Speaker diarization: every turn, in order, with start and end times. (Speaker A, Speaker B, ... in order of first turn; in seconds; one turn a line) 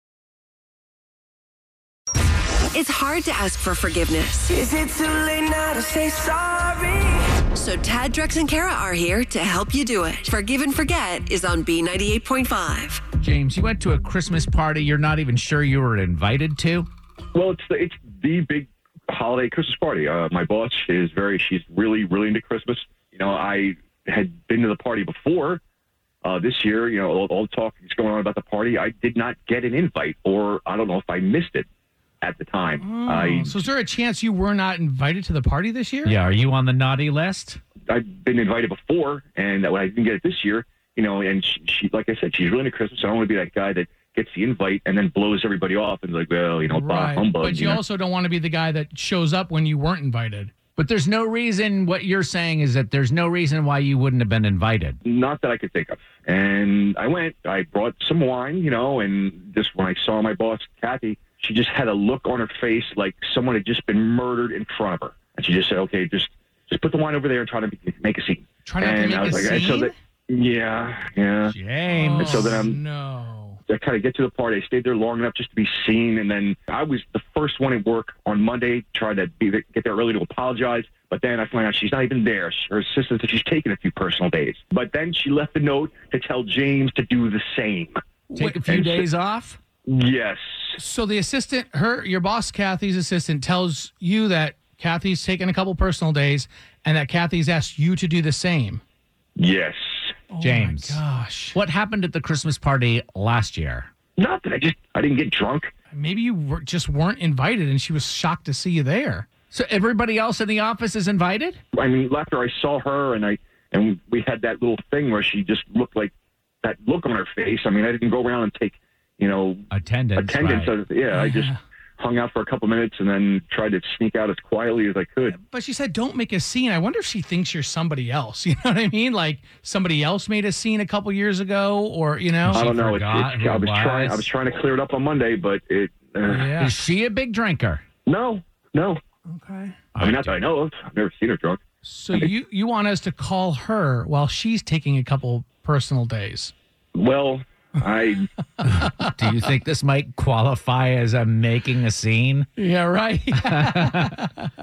Speaker A: 2.7-4.5
Speaker B: 4.6-7.1
Speaker A: 7.5-13.0
Speaker C: 13.2-16.9
Speaker D: 17.3-25.6
Speaker D: 26.2-31.7
Speaker D: 32.2-33.6
Speaker E: 32.8-36.1
Speaker C: 36.0-37.6
Speaker D: 37.9-47.8
Speaker E: 46.7-50.5
Speaker C: 50.8-55.0
Speaker D: 55.0-71.6
Speaker E: 68.6-70.0
Speaker C: 71.5-72.6
Speaker E: 71.8-73.6
Speaker D: 72.2-72.8
Speaker D: 73.7-88.0
Speaker E: 88.3-88.6
Speaker C: 88.3-89.6
Speaker D: 88.7-89.1
Speaker D: 89.9-90.8
Speaker E: 90.8-98.8
Speaker D: 99.4-99.8
Speaker E: 100.3-101.6
Speaker C: 100.4-101.0
Speaker C: 101.5-103.9
Speaker D: 104.2-105.7
Speaker E: 105.9-109.2
Speaker C: 109.5-111.6
Speaker D: 111.7-125.3
Speaker C: 119.7-120.8
Speaker E: 121.1-121.6
Speaker E: 125.2-132.7
Speaker C: 132.4-134.3
Speaker D: 132.5-136.5
Speaker E: 136.2-136.8
Speaker C: 136.6-137.8
Speaker D: 138.1-139.0
Speaker E: 139.3-139.8
Speaker C: 139.9-140.4
Speaker D: 140.0-141.6
Speaker E: 141.8-146.5
Speaker D: 146.9-148.3
Speaker C: 148.6-152.5
Speaker E: 148.8-149.1
Speaker E: 152.6-154.5
Speaker C: 153.3-154.2